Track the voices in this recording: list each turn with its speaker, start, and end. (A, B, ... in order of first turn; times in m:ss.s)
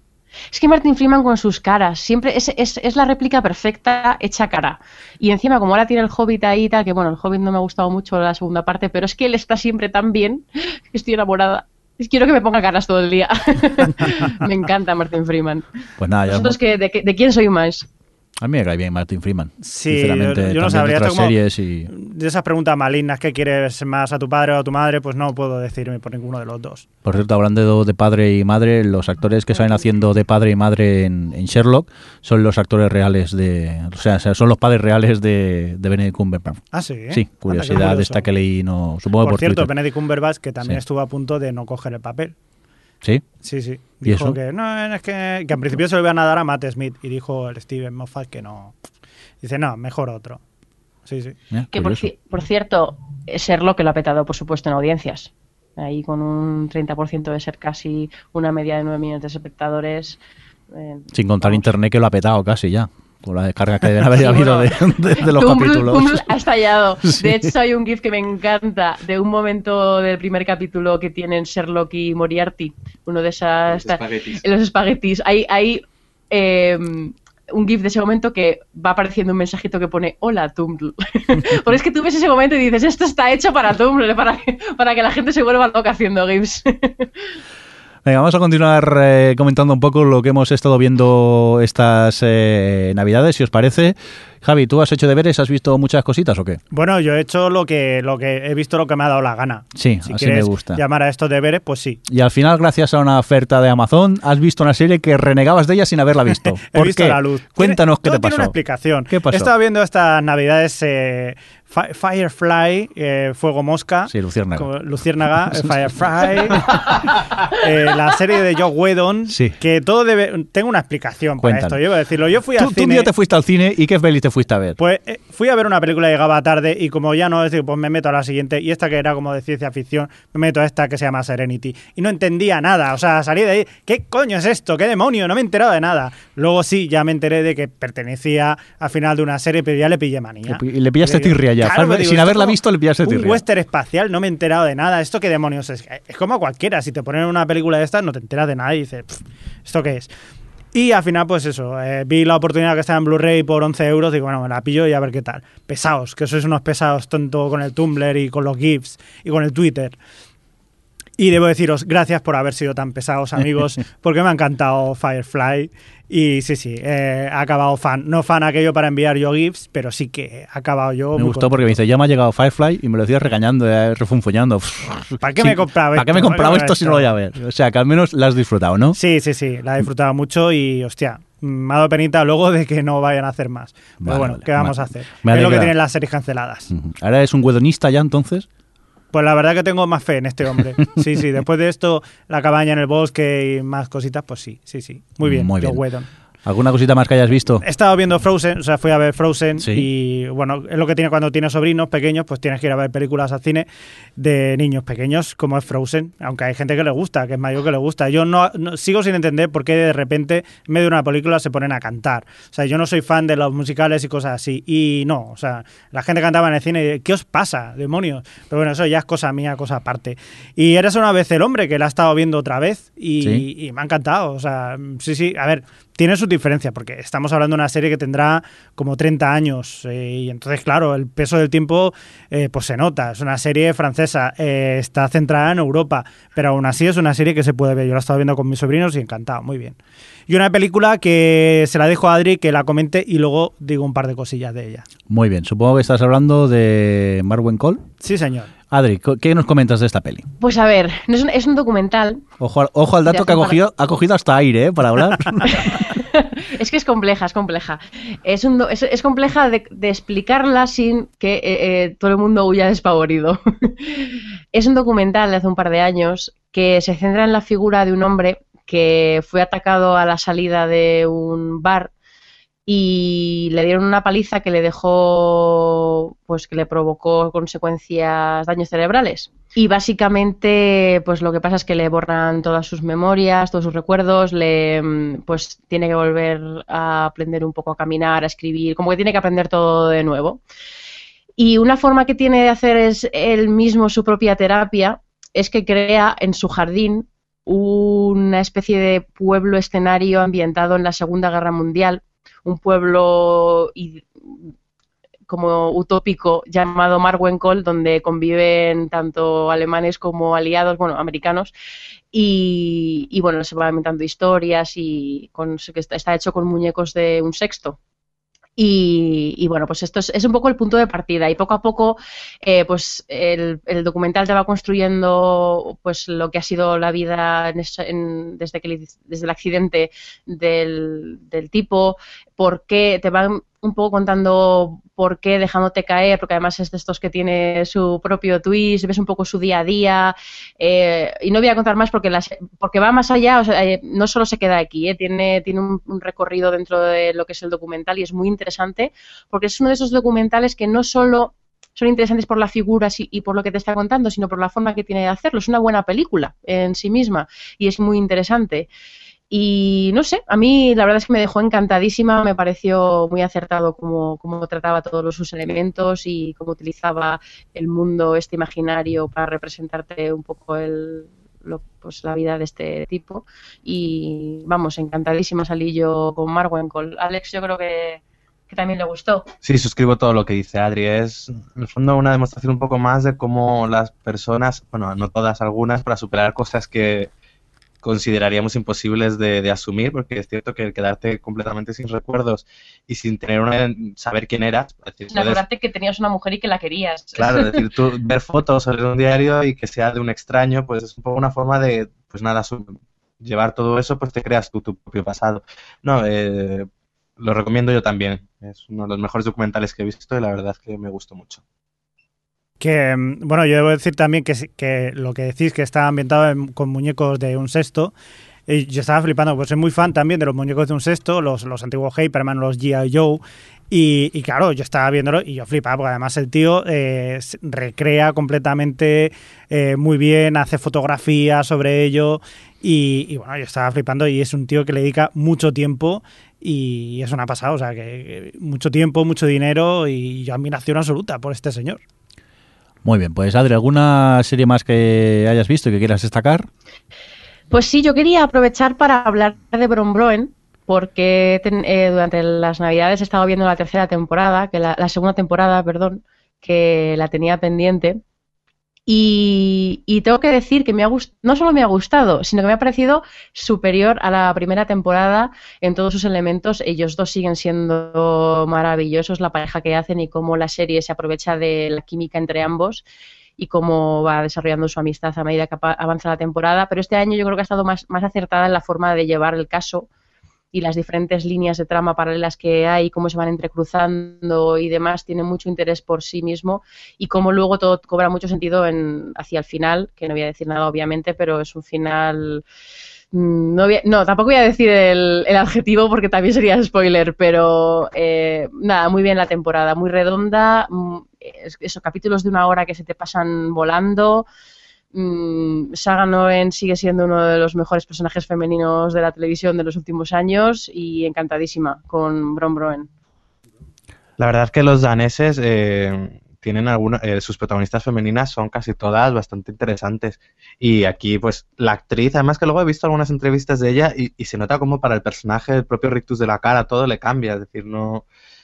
0:00.5-0:15.7 A
0:16.0-0:16.6 B
0:16.3-0:17.9 A
0:18.4-0:21.9 B
0:19.6-0:26.9 C
0:27.0-0:39.7 B
0:36.7-0:38.2 C
0:39.2-0:42.4 C
0:43.4-0:48.8 C
0:44.0-0:44.4 B
0:49.4-0:50.4 C
0:51.1-0:51.4 C
0:51.5-0:52.1 B
0:51.7-1:00.2 A
1:00.7-1:01.7 A
1:01.1-1:06.3 B
1:04.1-1:27.1 A
1:07.1-1:07.5 B
1:13.7-1:14.4 D
1:28.0-1:36.6 B
1:36.7-1:42.0 C
1:39.8-1:40.8 B
1:42.1-1:48.6 B
1:46.7-2:03.1 C
1:49.1-1:49.5 B
1:54.1-1:54.7 B
1:55.5-1:55.7 B
1:59.3-1:59.6 B
2:01.4-2:01.8 B
2:02.6-2:04.8 B
2:04.8-2:30.1 C
2:20.5-2:23.4 B
2:30.7-2:40.0 C
2:41.2-2:51.8 C
2:51.2-2:59.0 B
2:55.2-2:57.1 C
2:58.9-3:06.7 C
3:04.0-3:05.7 B
3:06.7-3:08.5 B
3:09.1-3:16.1 C
3:15.2-3:15.8 B
3:16.4-3:17.6 B
3:17.6-4:04.9 C
3:19.6-3:19.9 B
4:05.1-4:07.8 B
4:08.0-4:08.5 C
4:08.7-4:10.3 B
4:10.4-4:12.2 A
4:12.4-4:15.8 B
4:13.1-4:13.6 A
4:15.4-4:31.9 A
4:32.7-4:50.4 A
4:51.4-5:04.5 A
5:05.3-5:11.5 A
5:12.1-5:17.8 A
5:18.6-5:58.7 A
5:59.3-6:19.3 A
6:19.4-6:27.1 D
6:27.8-6:35.4 D
6:35.1-6:37.6 A
6:37.2-6:46.7 D
6:47.2-6:51.4 D
6:52.6-6:57.9 C
6:58.5-7:21.8 C
7:22.8-7:26.5 B
7:27.5-7:38.0 A
7:38.9-7:52.8 A
7:53.4-7:59.9 A
8:00.5-8:12.4 A
8:13.1-8:24.3 A
8:24.9-8:32.9 A
8:34.2-8:48.0 D